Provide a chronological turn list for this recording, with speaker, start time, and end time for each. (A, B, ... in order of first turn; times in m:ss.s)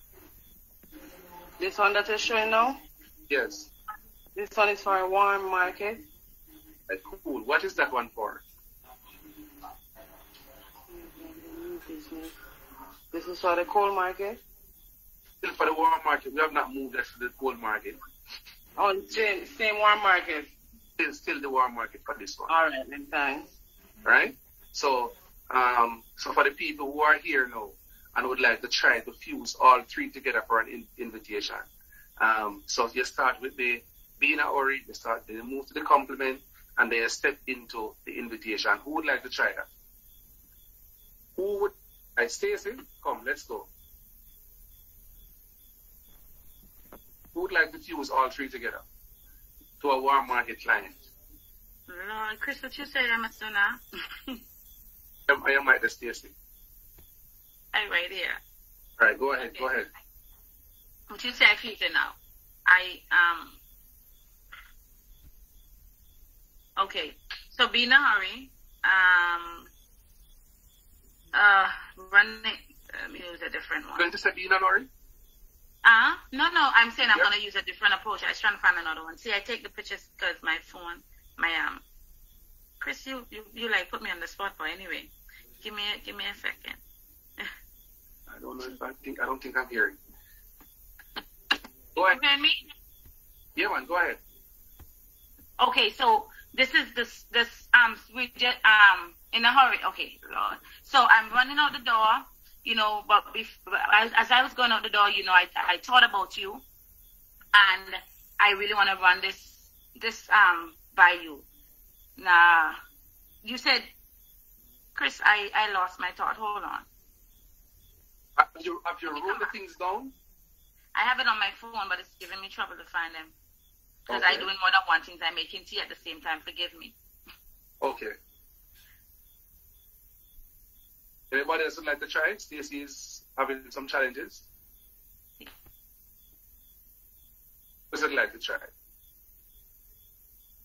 0:01.6-0:02.8 A
0:03.3-0:03.7 B
0:04.3-0:06.0 A
0:06.9-0:08.4 B
0:10.9-0:12.3 A
0:13.1-0:14.4 A
0:15.4-0:18.0 B
0:18.8-0:20.5 A
0:21.0-0:22.5 B
0:22.5-0:23.5 A
0:24.0-0:31.7 B
0:32.2-0:39.7 B
0:41.4-0:43.7 B
0:47.3-0:48.8 B
0:49.8-0:51.1 B
0:51.9-0:54.4 C
0:55.3-0:56.3 B
0:57.7-0:58.4 C
0:59.0-0:59.9 B
1:01.1-1:03.6 C
1:06.8-1:09.7 C
1:11.3-1:14.1 C
1:14.0-1:14.9 B
1:15.8-1:21.8 C
1:22.8-1:26.8 C
1:28.3-1:30.0 B
1:31.9-1:32.2 B
1:32.1-1:32.6 C
1:33.6-1:34.2 B
1:35.6-1:46.6 C
1:47.5-1:51.4 C
1:52.2-1:52.8 C
1:53.4-1:53.9 C
1:54.9-1:56.8 C
1:58.4-2:00.1 B
1:59.2-1:59.5 C
2:00.9-2:03.3 C
2:04.1-2:06.9 C
2:04.1-2:04.5 B
2:07.8-2:08.1 B
2:11.3-2:14.4 B
2:17.9-2:18.7 B